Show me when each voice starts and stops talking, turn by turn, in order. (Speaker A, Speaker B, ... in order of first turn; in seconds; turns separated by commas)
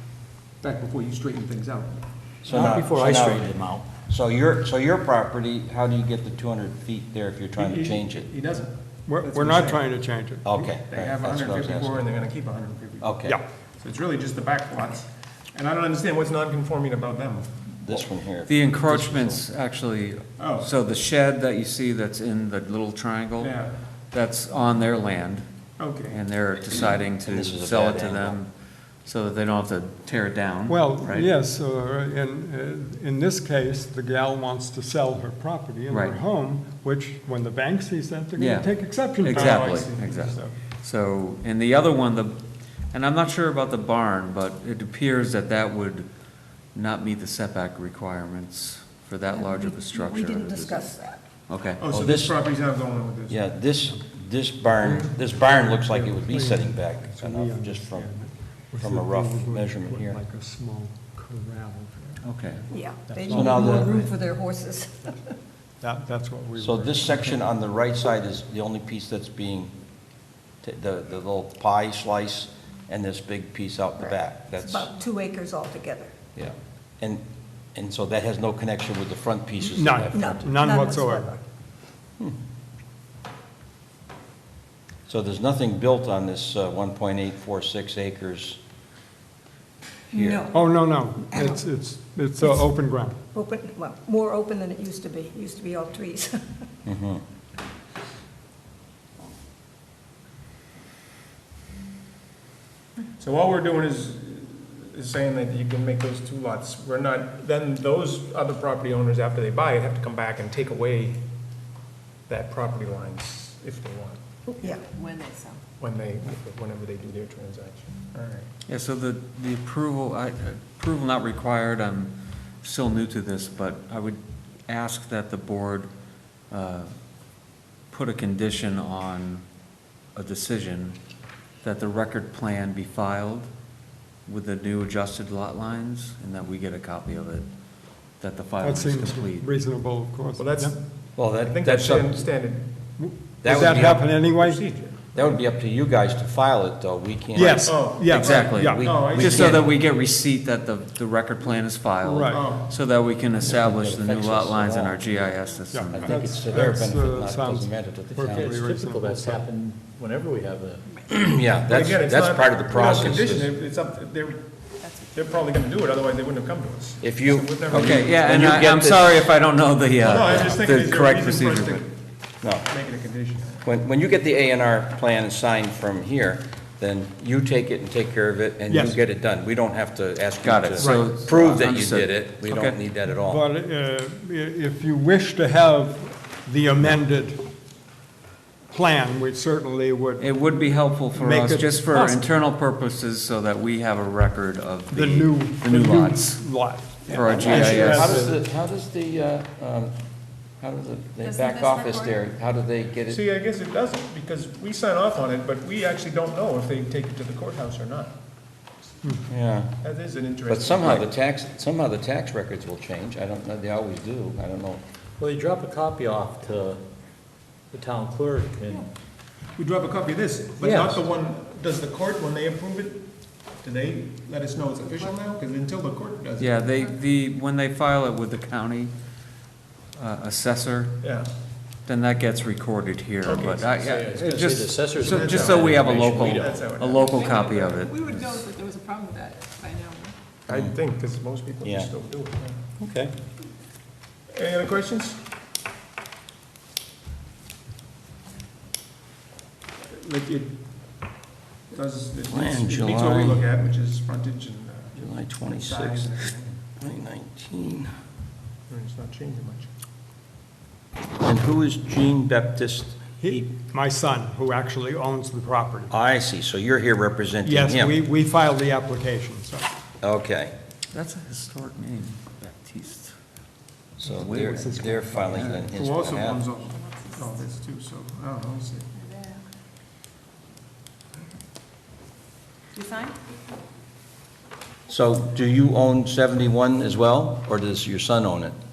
Speaker A: 0.6-2.0, Speaker B: 2.4-8.3, Speaker C: 2.4-3.9, Speaker A: 7.6-9.8, Speaker D: 9.1-10.7, Speaker B: 10.4-12.0, Speaker A: 10.9-13.2, Speaker B: 13.0-13.4, Speaker A: 13.8-17.6, Speaker B: 17.8-19.4, Speaker E: 18.5-23.5, Speaker A: 20.4-20.7, Speaker A: 23.4-23.7, Speaker E: 24.1-25.4, Speaker A: 25.8-26.2, Speaker E: 26.1-28.5, Speaker B: 26.7-28.4, Speaker E: 29.0-31.3, Speaker D: 30.7-40.5, Speaker E: 35.9-36.2, Speaker E: 38.4-42.4, Speaker A: 39.3-40.4, Speaker E: 42.9-46.1, Speaker E: 46.7-50.9, Speaker F: 49.3-51.2, Speaker E: 51.5-51.8, Speaker A: 51.8-53.5, Speaker B: 51.9-52.4, Speaker B: 53.3-58.1, Speaker D: 54.8-62.2, Speaker B: 58.8-60.2, Speaker E: 62.2-62.6, Speaker F: 62.7-65.1, Speaker D: 63.1-64.0, Speaker B: 63.3-64.1, Speaker D: 65.8-67.4, Speaker B: 66.6-69.7, Speaker B: 70.6-74.9, Speaker F: 74.0-76.1, Speaker B: 76.3-77.2, Speaker B: 77.7-80.5, Speaker D: 79.6-81.3, Speaker F: 80.1-81.4, Speaker B: 85.1-88.6, Speaker F: 90.1-90.7, Speaker B: 90.1-90.4, Speaker D: 90.5-93.2, Speaker F: 91.3-91.6, Speaker F: 93.3-96.7, Speaker B: 96.8-97.2, Speaker A: 103.2-111.2, Speaker A: 112.3-114.2, Speaker G: 114.6-115.6, Speaker A: 115.8-118.5, Speaker E: 118.7-125.9, Speaker E: 126.5-126.9, Speaker E: 127.9-129.4, Speaker E: 130.1-131.0, Speaker E: 131.6-133.5, Speaker E: 134.2-137.4, Speaker E: 138.2-139.4, Speaker D: 138.6-140.8, Speaker A: 140.4-140.8, Speaker B: 141.2-142.2, Speaker A: 141.4-142.8, Speaker D: 143.0-144.6, Speaker B: 143.4-144.1, Speaker A: 143.5-145.4, Speaker B: 145.1-147.8, Speaker D: 147.3-149.6, Speaker A: 147.6-149.6, Speaker E: 148.2-156.0, Speaker B: 148.7-149.7, Speaker D: 152.0-152.5, Speaker A: 152.3-152.7, Speaker C: 153.4-156.9, Speaker D: 155.7-159.4, Speaker A: 155.9-156.3, Speaker B: 156.0-158.6, Speaker C: 158.1-161.0, Speaker B: 161.1-163.5, Speaker A: 161.7-164.6, Speaker G: 164.8-165.2, Speaker A: 165.1-168.4, Speaker B: 167.0-169.2, Speaker E: 167.7-171.8, Speaker A: 170.0-171.9, Speaker A: 172.4-173.6, Speaker B: 173.6-183.4, Speaker D: 178.7-179.0, Speaker E: 180.4-182.8, Speaker D: 180.8-181.2, Speaker D: 183.1-187.4, Speaker D: 188.7-190.3, Speaker E: 190.2-196.4, Speaker D: 191.1-192.3, Speaker D: 194.9-198.3, Speaker E: 197.1-198.2, Speaker A: 197.1-198.0, Speaker B: 197.2-199.9, Speaker B: 200.6-203.2, Speaker G: 201.2-202.2, Speaker A: 203.1-208.2, Speaker B: 209.3-209.8, Speaker A: 209.8-211.0, Speaker B: 210.5-214.8, Speaker C: 215.2-216.8, Speaker C: 217.7-218.9, Speaker A: 219.6-226.7, Speaker C: 220.6-221.0, Speaker E: 226.4-228.9, Speaker E: 229.9-231.0, Speaker E: 231.8-238.0, Speaker A: 233.2-233.8, Speaker C: 233.8-236.7, Speaker A: 235.1-237.8, Speaker G: 237.0-240.2, Speaker A: 240.5-242.6, Speaker B: 241.6-241.9, Speaker C: 242.8-243.1, Speaker A: 244.3-245.2, Speaker A: 249.8-250.6, Speaker A: 251.7-256.6, Speaker B: 252.3-253.4, Speaker B: 255.0-256.2, Speaker B: 256.8-257.9, Speaker A: 258.7-259.7, Speaker B: 261.2-263.5, Speaker D: 263.2-265.9, Speaker B: 265.9-268.0, Speaker D: 267.4-269.7, Speaker B: 270.0-270.5, Speaker E: 270.9-273.2, Speaker B: 274.0-276.4, Speaker D: 274.0-275.6, Speaker E: 274.1-275.7, Speaker A: 275.7-278.9, Speaker G: 276.7-277.4, Speaker G: 278.9-279.4, Speaker G: 282.7-283.2, Speaker B: 284.9-288.5